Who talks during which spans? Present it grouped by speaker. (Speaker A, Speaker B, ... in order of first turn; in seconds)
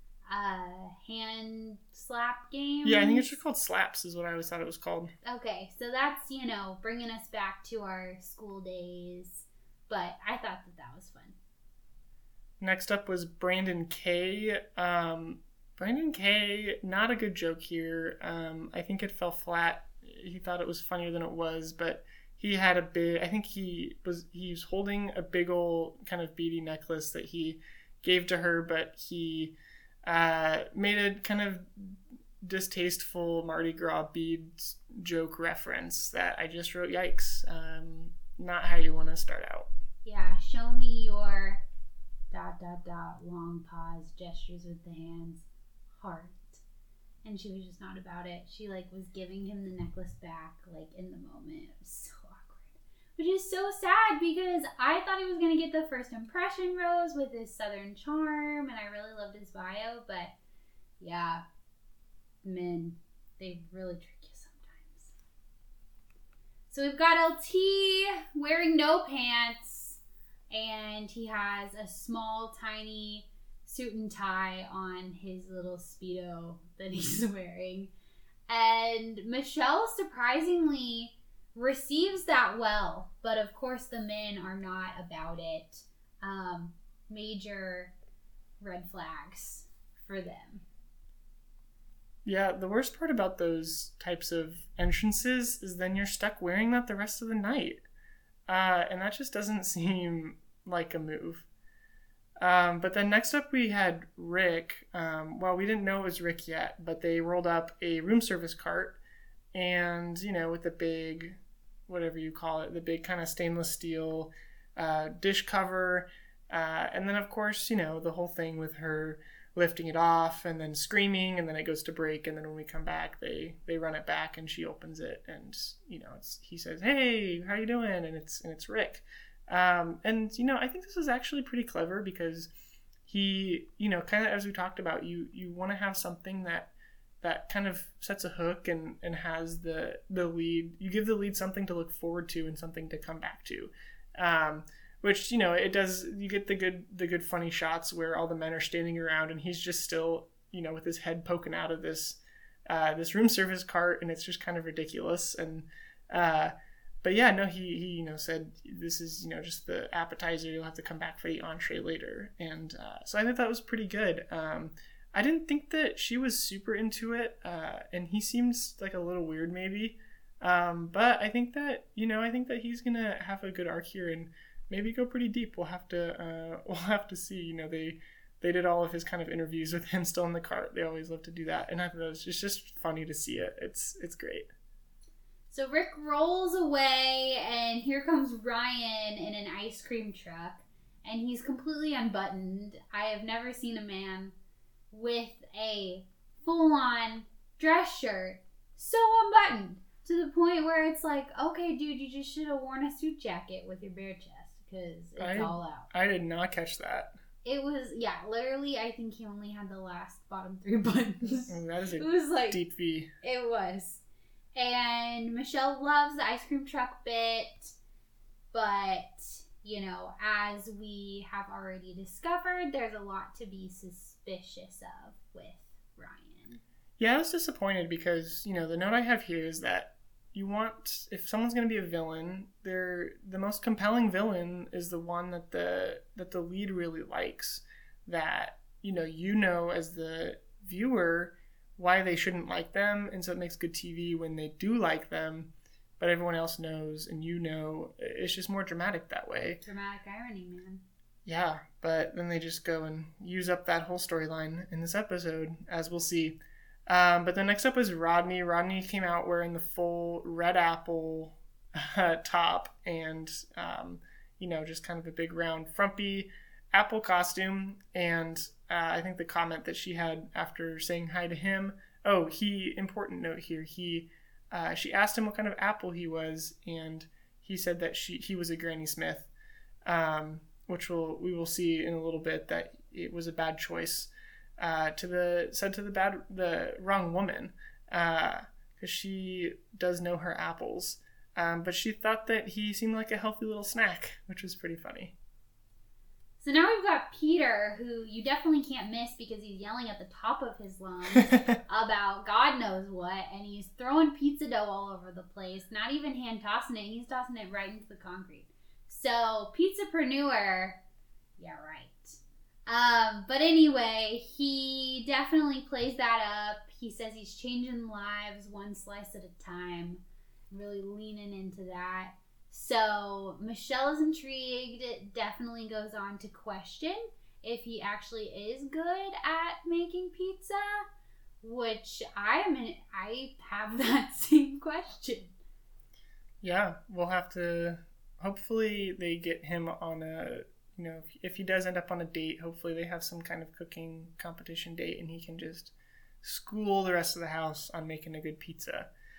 Speaker A: 0.3-3.3, 5.2-11.4, 40.0-41.6, 42.3-45.5, 46.0-46.6, 47.2-60.3, 61.0-61.4, 62.4-65.1, 66.7-70.0, 70.5-77.9, 78.5-87.9, 88.6-90.6, 185.5-194.3, 194.9-205.9, 207.4-212.6, 213.2-214.0, 214.6-217.8, 218.5-226.6, 249.6-250.8, 296.4-310.8, 311.4-330.9, 331.4-335.3
Speaker B: 2.9-5.1, 12.6-39.7, 92.2-97.8, 98.5-101.5, 102.4-109.0, 109.5-132.5, 133.1-136.7, 137.2-184.5, 205.2-207.1, 211.3-213.1, 227.0-249.6, 251.3-279.3, 279.9-295.1, 336.4-348.9